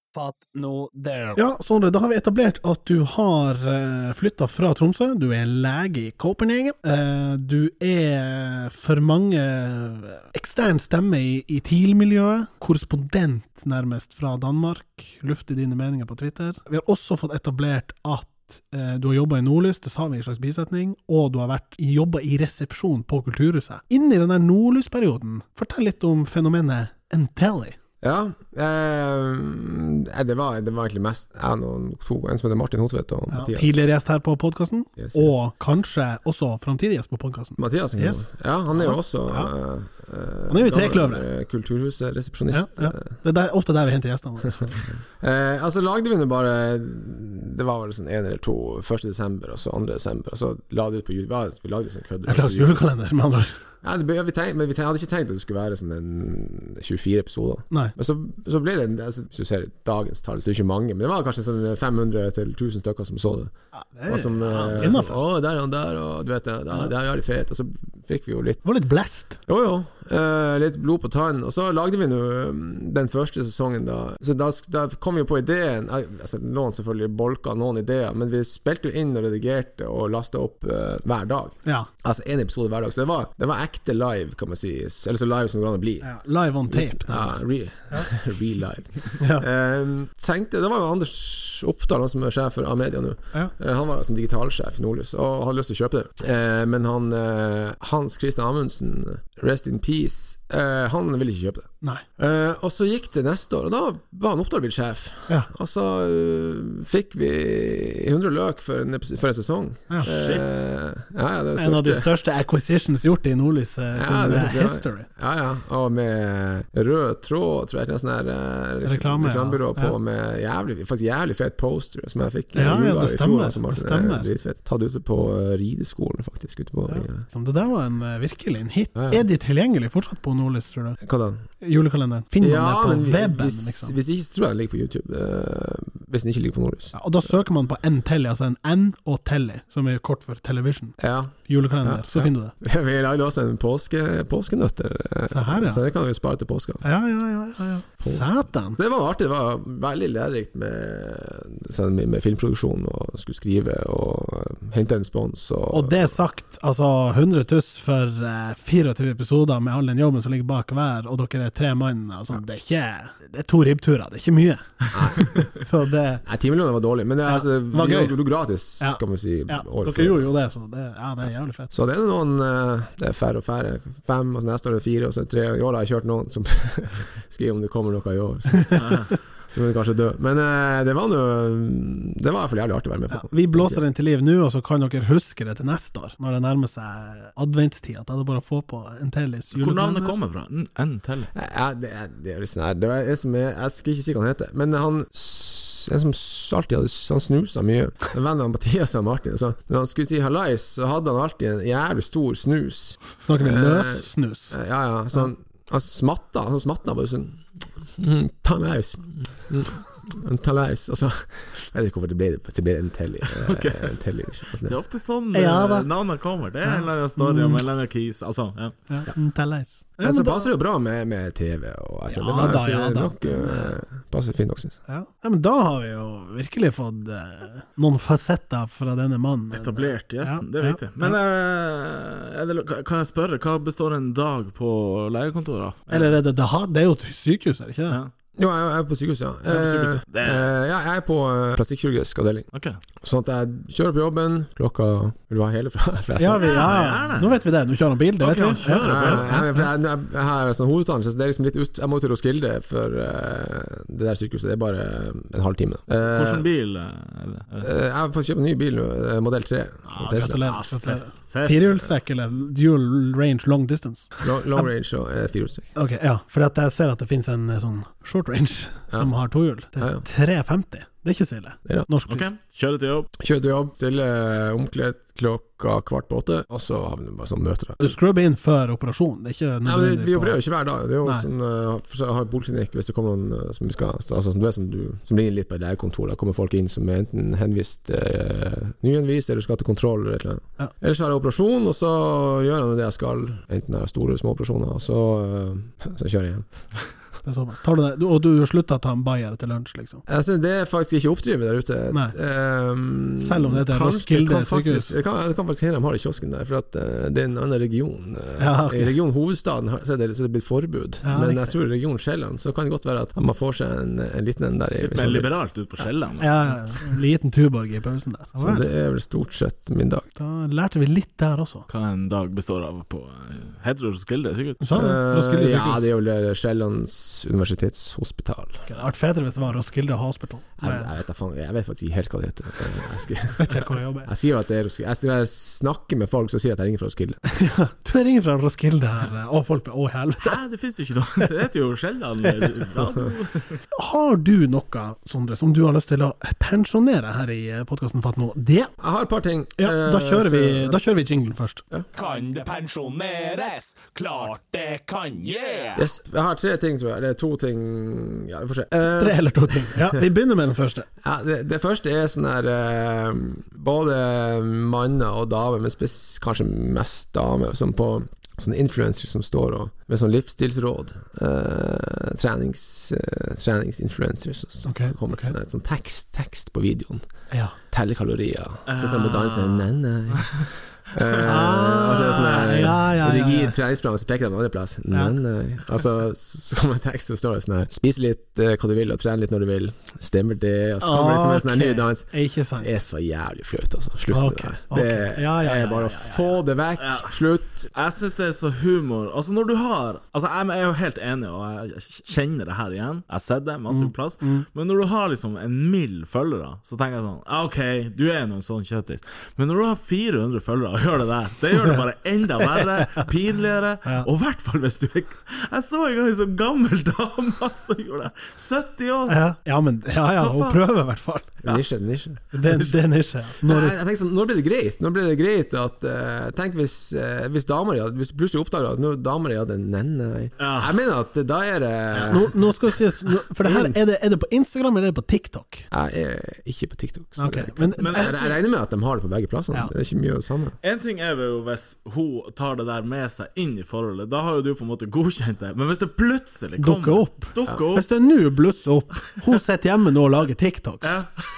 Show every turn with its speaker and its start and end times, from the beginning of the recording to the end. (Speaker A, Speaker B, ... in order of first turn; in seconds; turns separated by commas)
Speaker A: 0.1-1.4, Speaker B: 1.4-27.8, Speaker C: 28.0-34.0, Speaker B: 33.3-39.5, Speaker C: 35.0-35.4, Speaker C: 37.6-43.1, Speaker B: 40.5-41.3, Speaker B: 42.5-44.9, Speaker C: 44.8-52.8, Speaker B: 52.2-53.6, Speaker C: 53.8-63.5, Speaker B: 63.7-65.2, Speaker C: 64.1-68.6, Speaker D: 64.5-65.0, Speaker B: 68.6-69.4, Speaker C: 69.5-86.1, Speaker B: 86.0-88.1, Speaker C: 86.7-112.1, Speaker B: 89.2-89.5, Speaker D: 110.0-110.5, Speaker B: 111.6-115.1, Speaker C: 113.9-127.2, Speaker B: 118.8-120.0, Speaker B: 122.5-124.3, Speaker B: 126.9-131.0, Speaker C: 128.9-129.2, Speaker C: 131.0-131.4, Speaker B: 131.6-134.0, Speaker C: 132.4-137.0, Speaker B: 136.9-142.6, Speaker C: 141.0-146.8, Speaker B: 145.3-145.8, Speaker B: 146.8-148.8, Speaker C: 148.0-156.2, Speaker B: 155.7-166.2, Speaker C: 164.9-165.3, Speaker C: 166.2-170.3, Speaker B: 167.3-168.2, Speaker B: 168.8-171.7, Speaker C: 171.7-179.0, Speaker D: 178.8-179.1, Speaker C: 179.5-183.8, Speaker B: 183.1-190.2, Speaker D: 189.5-191.3, Speaker C: 191.3-214.8, Speaker B: 203.2-204.6, Speaker D: 213.3-213.9, Speaker D: 214.6-218.8, Speaker B: 215.3-215.9, Speaker B: 216.6-217.6, Speaker B: 218.9-220.5, Speaker C: 220.0-224.8, Speaker B: 222.1-223.8, Speaker B: 224.9-231.2, Speaker D: 229.5-236.1, Speaker B: 235.9-238.0, Speaker C: 238.4-242.5, Speaker D: 239.5-240.5, Speaker D: 242.5-242.8, Speaker C: 243.0-246.8, Speaker B: 246.2-249.5, Speaker D: 246.4-247.4, Speaker D: 248.2-249.5, Speaker C: 248.8-256.5, Speaker D: 256.0-257.7, Speaker C: 257.6-260.4, Speaker B: 259.9-264.2, Speaker D: 260.3-261.7, Speaker C: 264.2-265.7, Speaker B: 265.8-272.3, Speaker C: 269.8-270.0, Speaker D: 272.1-273.1, Speaker C: 273.2-278.0, Speaker B: 277.8-280.4, Speaker C: 279.6-296.5, Speaker B: 297.2-300.0, Speaker C: 300.1-315.3, Speaker B: 303.2-304.9, Speaker B: 308.4-308.9, Speaker B: 311.0-311.6, Speaker D: 314.8-316.6, Speaker B: 316.2-318.6, Speaker C: 318.4-320.1, Speaker B: 320.2-321.7, Speaker D: 321.7-324.6, Speaker B: 324.6-325.9, Speaker C: 324.8-328.7, Speaker B: 328.7-330.9, Speaker C: 330.6-337.2, Speaker B: 333.4-334.1, Speaker B: 337.3-340.4, Speaker D: 340.2-343.6, Speaker B: 343.7-348.7, Speaker C: 348.8-350.8, Speaker B: 349.6-351.6, Speaker A: 351.9-355.9, Speaker C: 355.8-360.0, Speaker B: 358.8-360.9, Speaker C: 361.0-377.1, Speaker B: 374.7-375.4, Speaker B: 377.3-377.6, Speaker C: 377.7-397.7, Speaker D: 378.7-380.5, Speaker B: 381.1-383.6, Speaker B: 390.8-392.7, Speaker B: 394.1-396.4, Speaker D: 396.8-397.1, Speaker D: 397.7-419.2, Speaker B: 403.7-404.4, Speaker B: 412.6-413.1, Speaker B: 419.1-421.4, Speaker D: 420.1-420.7, Speaker C: 421.4-422.2, Speaker B: 422.3-423.8, Speaker D: 422.4-422.7, Speaker C: 423.4-432.6, Speaker D: 430.4-430.8, Speaker B: 432.0-435.7, Speaker C: 433.1-433.8, Speaker C: 435.7-440.6, Speaker B: 437.2-438.4, Speaker D: 437.8-438.2, Speaker D: 440.6-447.9, Speaker B: 446.6-451.1, Speaker D: 450.8-451.2